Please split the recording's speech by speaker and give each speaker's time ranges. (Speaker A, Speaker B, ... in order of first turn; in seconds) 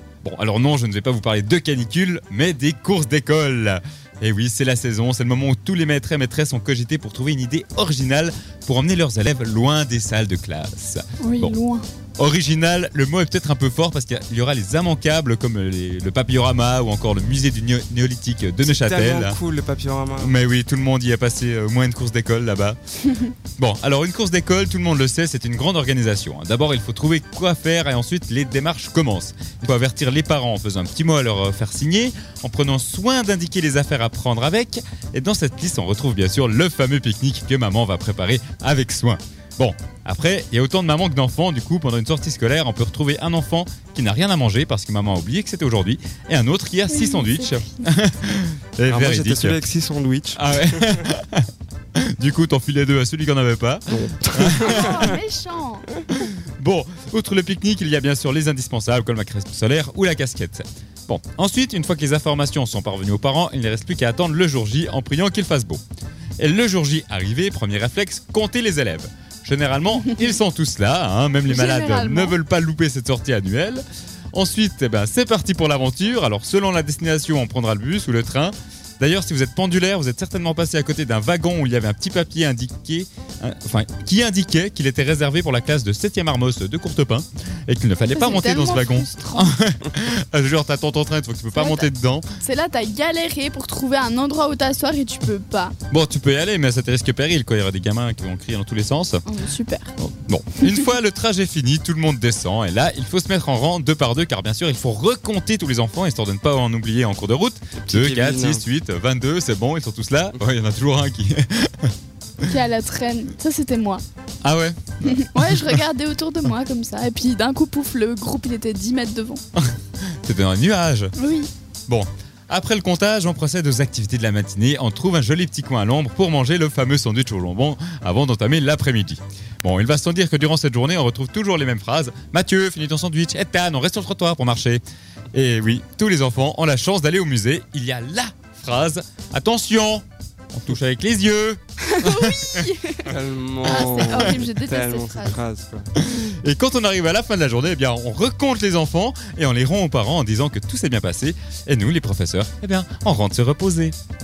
Speaker A: 0.2-11.6, 12.2-19.4, 20.2-22.8, 23.6-49.6, 50.4-55.1, 56.1-65.8, 66.4-92.2, 95.9-99.2, 100.0-111.9, 114.4-115.8, 119.6-121.1, 121.9-134.8, 135.3-142.7, 143.8-144.4, 146.0-153.9
Speaker B: 11.2-11.8, 46.9-47.9, 54.5-55.9, 71.5-72.4, 88.1-89.5, 91.5-91.9, 92.4-95.7, 99.2-99.9, 112.5-114.0, 115.0-119.4, 121.2-121.5, 141.8-145.4
Speaker C: 18.6-20.4, 48.9-51.1, 54.1-55.1, 107.8-108.6, 143.1-145.9